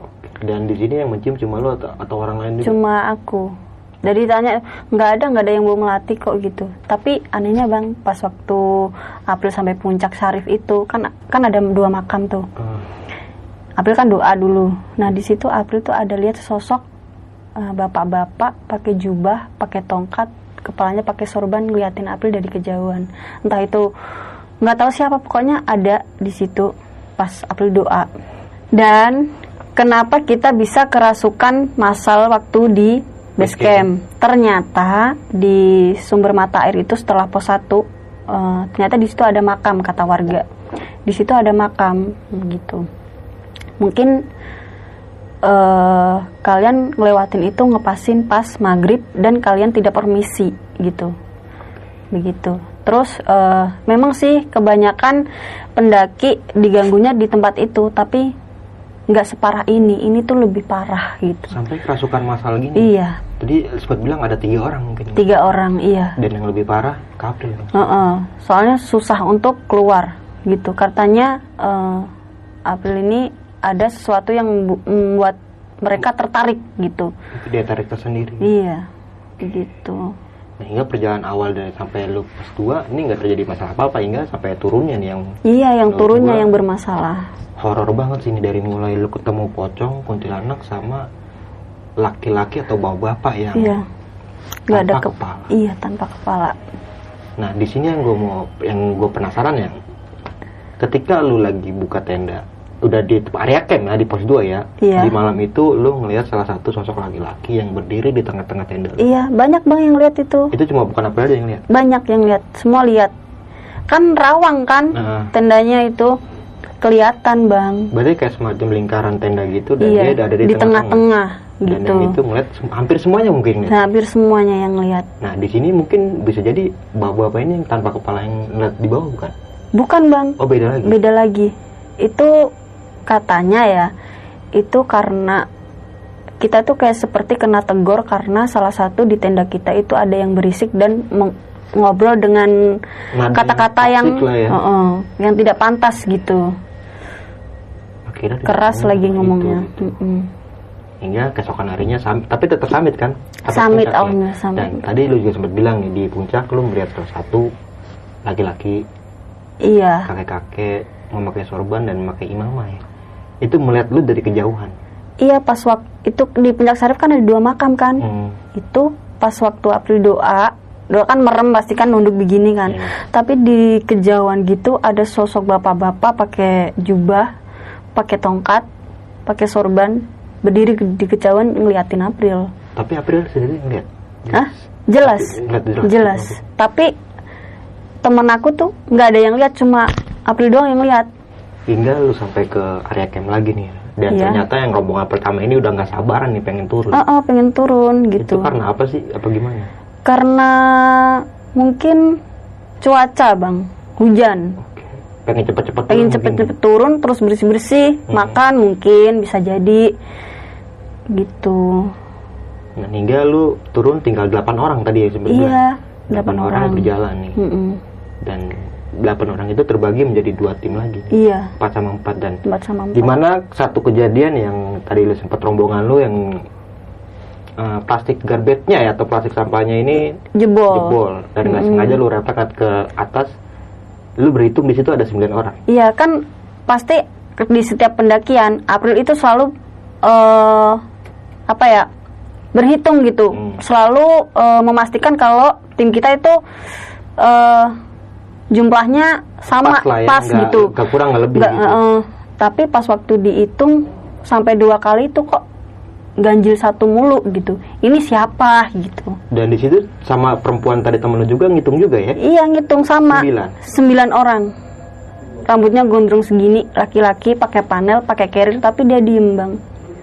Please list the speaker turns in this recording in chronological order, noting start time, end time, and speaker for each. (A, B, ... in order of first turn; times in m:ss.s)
0:00.2-0:02.8 A
0:02.6-0:12.5 B
0:12.6-0:12.8 A
0:13.8-0:16.8 B
0:17.6-0:23.9 B
0:24.6-0:28.1 B
0:28.7-0:40.4 B
0:33.4-0:33.9 A
0:41.0-0:42.9 B
0:43.8-0:44.2 B
0:45.4-0:51.1 B
0:52.1-0:55.2 B
0:55.8-0:58.3 B
0:59.1-1:01.6 B
1:01.5-1:05.3 A
1:02.8-1:03.2 B
1:05.1-1:06.2 B
1:06.2-1:07.8 A
1:07.7-1:12.1 B
1:12.6-1:17.1 B
1:17.3-1:18.5 A
1:18.4-1:18.9 B
1:19.4-1:20.1 B
1:20.6-1:25.3 A
1:25.4-1:27.3 B
1:25.9-1:26.5 A
1:27.6-1:31.0 A
1:32.0-1:33.8 A
1:33.5-1:33.8 B
1:34.7-1:36.6 B
1:34.7-1:35.5 A
1:37.4-1:39.7 A
1:40.8-1:49.0 A
1:44.8-1:45.1 B
1:49.0-1:50.5 B
1:50.5-1:51.6 A
1:51.7-1:53.1 B
1:53.9-1:56.2 B
1:54.9-1:55.3 A
1:56.8-1:57.9 B
1:57.9-2:01.0 A
1:59.8-2:02.2 B
2:01.7-2:03.8 A
2:03.7-2:05.1 B
2:05.2-2:09.3 A
2:09.7-2:12.5 B
2:10.4-2:11.0 A
2:13.1-2:13.9 B
2:14.5-2:15.4 B
2:16.4-2:22.8 B
2:23.1-2:24.6 A
2:23.3-2:26.6 B
2:28.1-2:29.9 A
2:28.4-2:30.3 B
2:31.0-2:37.5 A
2:33.4-2:34.8 B
2:38.2-2:38.8 A
2:39.6-2:40.1 B
2:40.0-2:42.8 A
2:43.4-2:44.8 A
2:45.2-2:57.3 B
2:48.0-2:48.4 A
2:52.7-2:52.9 A
2:57.9-2:58.6 B
2:59.2-3:02.5 B
3:02.8-3:04.5 A
3:04.3-3:06.9 B
3:05.0-3:06.4 A
3:08.0-3:11.1 B
3:11.7-3:17.0 A
3:14.1-3:14.4 B
3:16.9-3:18.5 B
3:18.2-3:19.7 A
3:20.0-3:22.2 B
3:22.8-3:24.6 B
3:24.6-3:26.5 A
3:25.9-3:29.9 B
3:28.1-3:28.4 A
3:31.1-3:31.9 B
3:32.8-3:37.4 A
3:35.3-3:37.8 B
3:38.2-3:42.4 A
3:41.1-3:41.5 B
3:42.4-3:43.2 B
3:42.9-3:46.4 A
3:47.6-3:50.2 A
3:50.3-3:52.0 B
3:50.7-3:53.3 A
3:54.2-3:55.6 A
3:55.7-4:00.8 B
4:01.5-4:01.9 B
4:02.5-4:06.4 B
4:07.2-4:07.7 B
4:08.5-4:10.7 B
4:09.6-4:11.8 A
4:11.3-4:15.4 B
4:16.2-4:19.2 B
4:19.3-4:22.2 A
4:22.2-4:24.5 B
4:23.1-4:23.6 A
4:25.4-4:29.6 B